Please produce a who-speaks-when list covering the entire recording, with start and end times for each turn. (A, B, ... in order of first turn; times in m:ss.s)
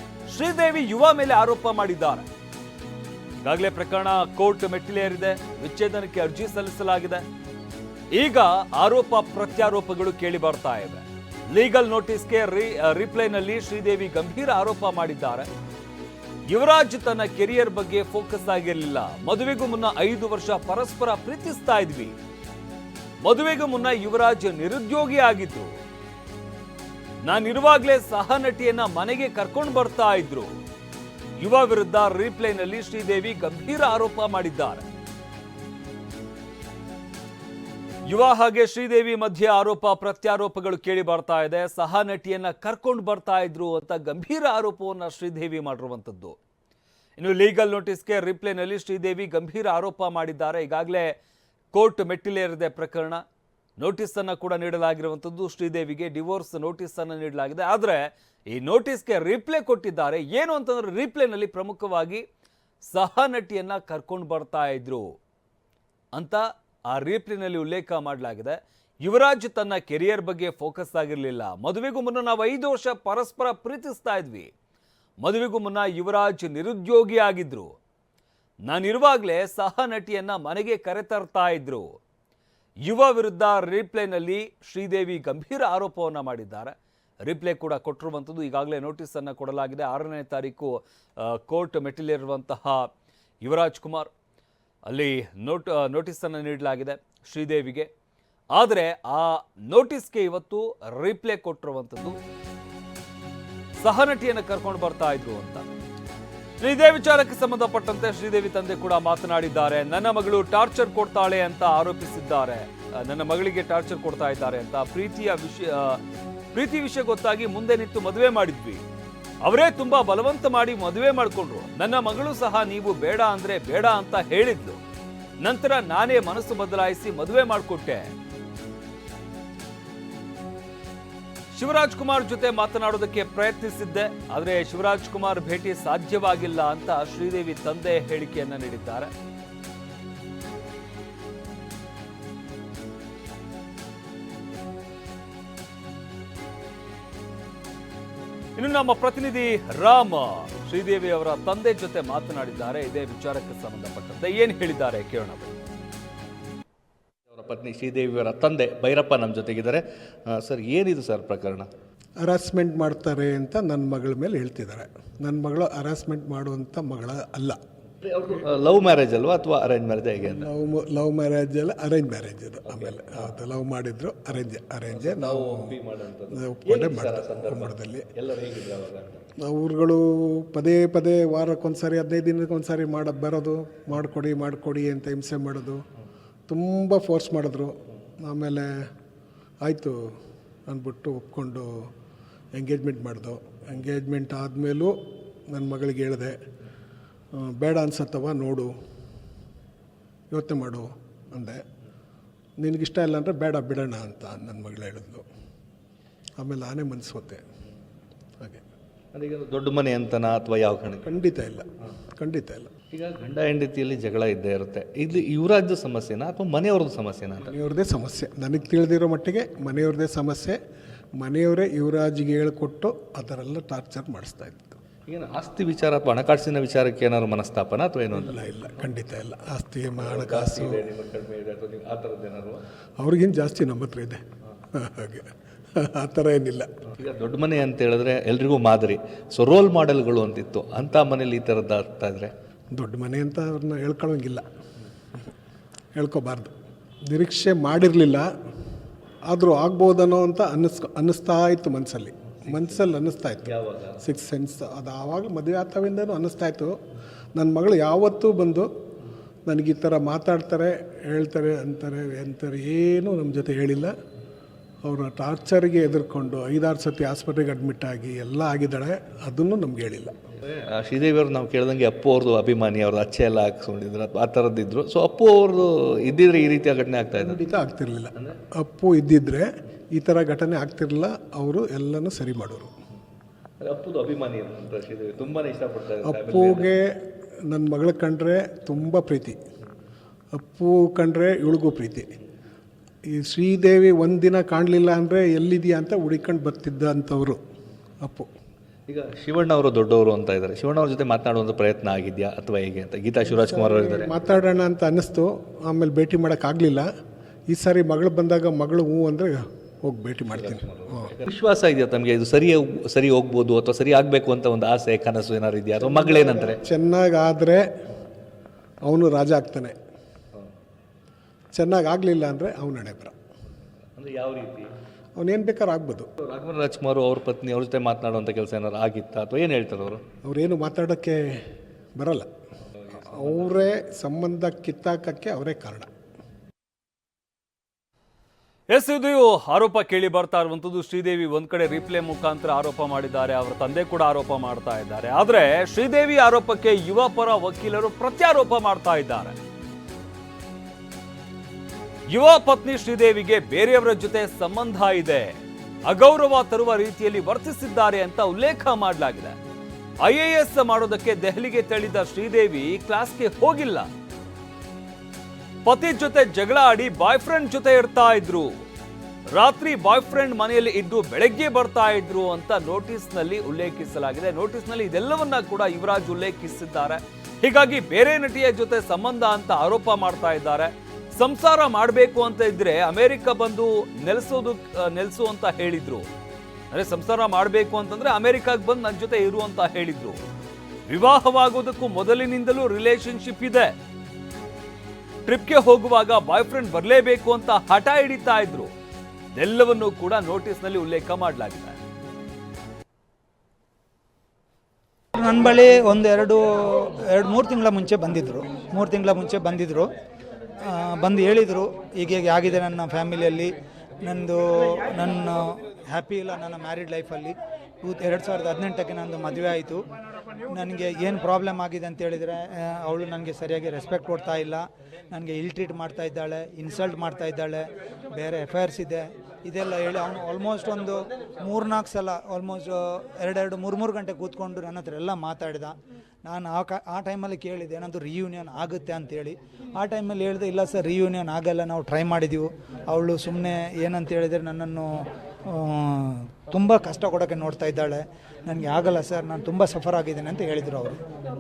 0:00.3-0:02.3 A
0:03.4-0:07.2 A
0:08.1-0:15.5 A
0:16.5-0:22.2 A
0:23.2-0:25.7 A
0:27.2-0:30.5 A
0:31.4-0:34.8 A
0:38.1-0:46.4 A
0:47.2-0:51.1 A
0:51.7-0:53.2 A
0:53.8-1:02.2 A
1:02.8-1:05.1 A
1:06.1-1:14.5 A
1:15.2-1:17.7 A
1:18.7-1:21.9 A
1:22.8-1:32.9 A
1:33.4-1:34.1 A
1:34.9-1:37.9 A
1:38.5-1:42.2 A
1:43.8-1:45.7 A
1:46.6-1:56.0 A
1:56.5-1:58.8 A
1:59.4-2:04.8 A
2:05.4-2:08.1 A
2:11.5-2:19.1 A
2:28.6-2:35.5 A
2:37.3-2:41.7 B
2:42.2-2:47.6 C
2:48.0-2:50.5 B
2:50.2-2:55.8 C
2:52.7-2:53.3 B
2:54.9-2:59.2 B
2:56.3-2:58.1 C
2:59.4-3:05.8 C
3:06.5-3:08.9 C
3:09.6-3:10.2 C
3:10.7-3:11.9 C
3:12.5-3:16.4 C
3:17.3-3:18.7 C
3:20.3-3:21.6 C
3:22.6-3:25.2 C
3:26.4-3:27.4 C
3:29.1-3:31.1 B
3:31.0-3:31.7 C
3:32.2-3:32.7 C
3:32.9-3:37.5 B
3:37.4-3:40.6 C
3:41.2-3:44.8 C
3:45.1-3:48.5 B
3:48.1-3:50.9 C
3:50.0-3:52.6 B
3:53.0-3:56.8 C
3:57.0-4:02.3 B
4:02.7-4:04.5 C
4:06.0-4:06.5 C
4:07.1-4:08.3 C
4:09.3-4:16.8 C
4:12.5-4:12.9 B
4:13.4-4:14.0 B
4:17.4-4:18.7 C
4:19.5-4:24.0 C
4:24.8-4:30.2 C
4:30.4-4:37.4 B
4:37.2-4:42.7 C
4:43.6-4:46.7 B
4:46.0-4:49.4 C
4:50.3-4:52.2 C
4:53.1-4:57.4 C
4:58.0-4:58.3 C
4:58.9-5:04.1 B
5:03.3-5:06.9 C
5:07.5-5:11.1 C
5:10.4-5:16.6 B
5:15.8-5:17.7 C
5:18.8-5:19.8 C
5:21.5-5:23.2 C
5:24.0-5:24.7 B
5:25.2-5:26.1 C
5:26.2-5:30.0 B
5:30.2-5:31.4 C
5:32.0-5:32.3 C
5:32.8-5:33.6 B
5:33.0-5:35.9 C
5:38.7-5:49.4 A
5:52.1-5:59.4 A
6:00.0-6:03.9 A
6:05.6-6:08.5 A
6:09.3-6:26.1 A
6:26.7-6:30.2 A
6:30.9-6:33.7 A
6:35.3-6:38.7 A
6:39.4-6:41.8 A
6:45.2-6:49.9 D
6:50.6-6:59.8 D
7:00.5-7:31.0 D